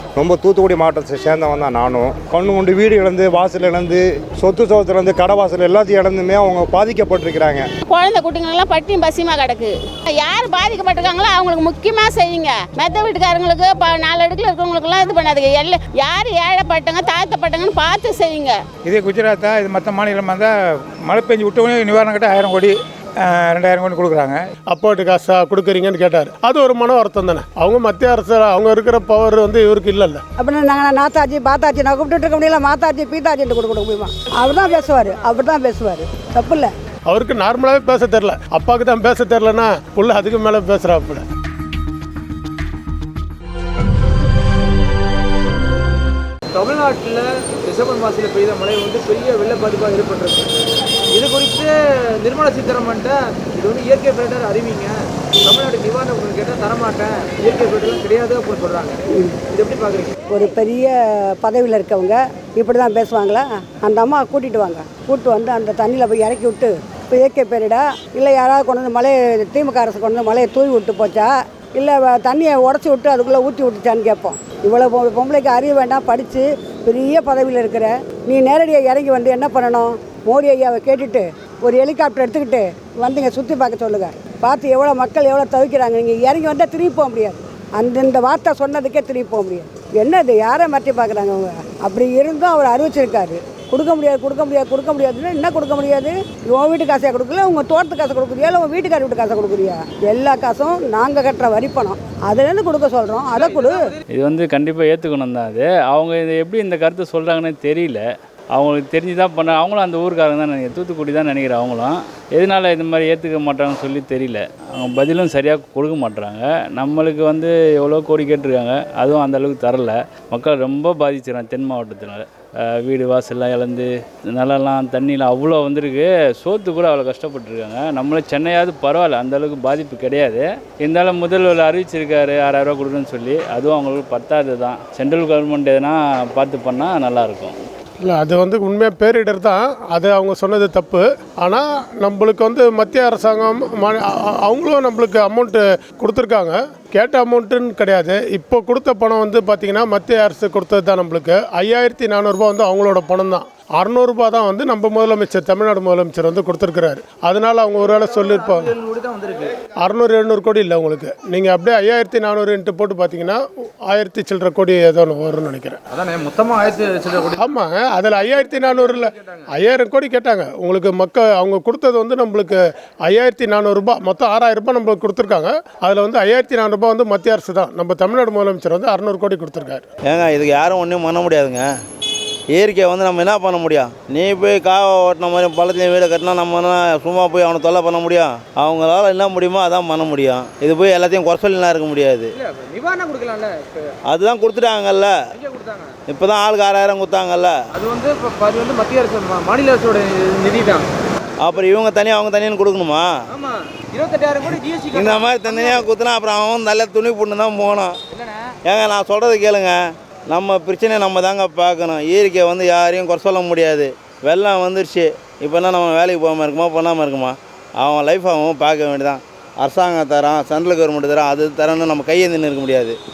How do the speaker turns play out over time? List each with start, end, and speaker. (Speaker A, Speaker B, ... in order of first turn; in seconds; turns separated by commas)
Speaker A: 0.2-7.7, Speaker B: 7.9-18.6, Speaker C: 18.8-20.5, Speaker C: 21.1-24.4, Speaker D: 24.7-30.2, Speaker E: 30.4-36.7, Speaker D: 37.1-41.2, Speaker F: 46.6-50.4, Speaker F: 51.1-51.7, Speaker F: 52.2-54.9, Speaker F: 55.5-59.0, Speaker E: 59.1-59.4, Speaker F: 59.6-60.1, Speaker E: 60.3-103.9, Speaker G: 104.1-137.6, Speaker D: 138.0-158.6, Speaker F: 157.7-159.5, Speaker D: 159.9-165.8, Speaker F: 166.0-167.5, Speaker D: 167.6-168.7, Speaker F: 168.2-169.1, Speaker D: 169.6-179.8, Speaker H: 180.1-181.6, Speaker H: 182.5-192.3, Speaker F: 192.5-193.8, Speaker H: 194.1-195.1, Speaker F: 195.4-195.9, Speaker H: 196.1-197.5, Speaker F: 197.8-200.8, Speaker H: 201.4-203.1, Speaker F: 203.4-204.9, Speaker H: 204.9-207.9, Speaker H: 208.7-209.8, Speaker H: 210.3-223.0